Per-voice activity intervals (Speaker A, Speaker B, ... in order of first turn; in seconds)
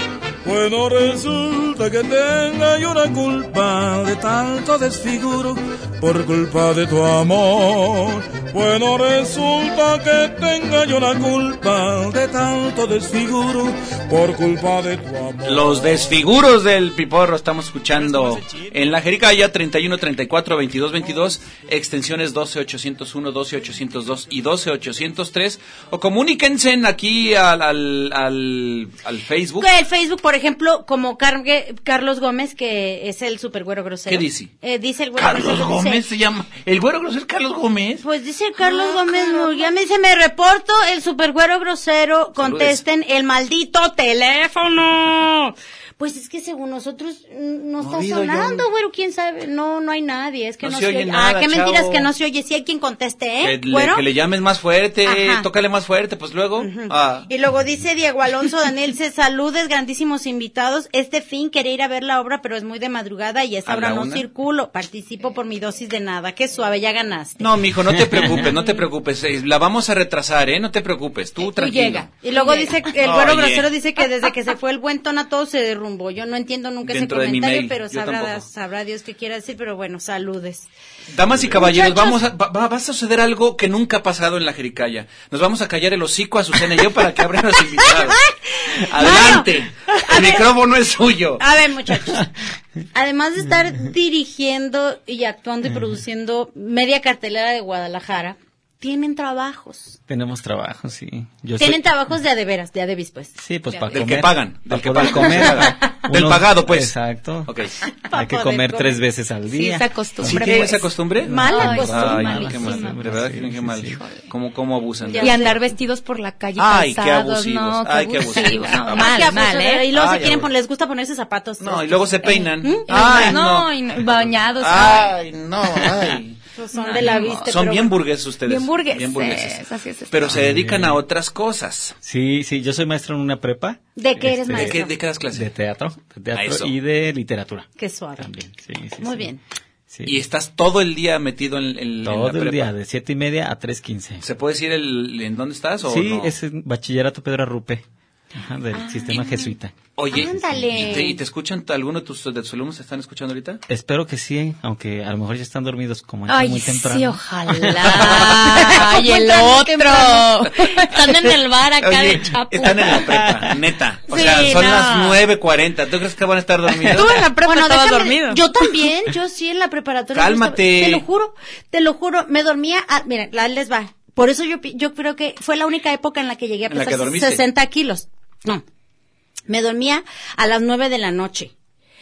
Speaker A: 0.4-16.2
Speaker B: 15.4-29.7, 34.1-34.5, 35.2-38.0, 42.4-42.8, 47.8-48.6, 50.6-52.1, 53.4-57.3, 63.6-64.2, 67.4-72.1, 73.0-73.7, 76.8-78.5, 81.1-91.4, 103.9-106.9, 107.5-107.7, 110.2-115.5, 116.6-119.1, 119.9-120.5, 121.6-126.4, 127.0-131.9, 134.5-135.5, 136.3-136.7, 140.1-142.7, 144.2-146.3, 150.0-153.6, 161.8-167.2, 170.1-171.0, 176.7-177.4
Speaker C: 29.6-36.0, 38.0-54.0, 55.0-55.5, 56.6-67.5, 72.2-80.7, 81.5-82.2, 87.8-90.5, 91.4-92.3, 92.9-100.0, 101.6-103.8, 108.0-109.0, 111.2-112.5, 115.0-115.6, 118.8-123.3, 126.5-127.9, 134.0-134.9, 137.8-138.3, 139.0-139.4, 150.1-151.2, 157.8-160.5, 164.1-165.1, 166.9-178.6, 179.5-181.5
Speaker D: 71.5-72.8, 109.5-113.0, 114.0-114.2, 115.2-119.9, 122.9-125.2, 126.8-127.5, 128.4-130.3, 148.8-149.4, 156.3-163.1, 164.1-164.9, 166.9-168.4
Speaker E: 100.1-101.8, 103.4-107.5, 108.1-110.7, 111.2-114.0, 130.3-131.0, 132.0-134.8, 135.3-139.3, 139.9-140.2, 142.0-144.2, 145.8-147.8, 148.3-151.0, 153.7-157.9, 163.1-163.5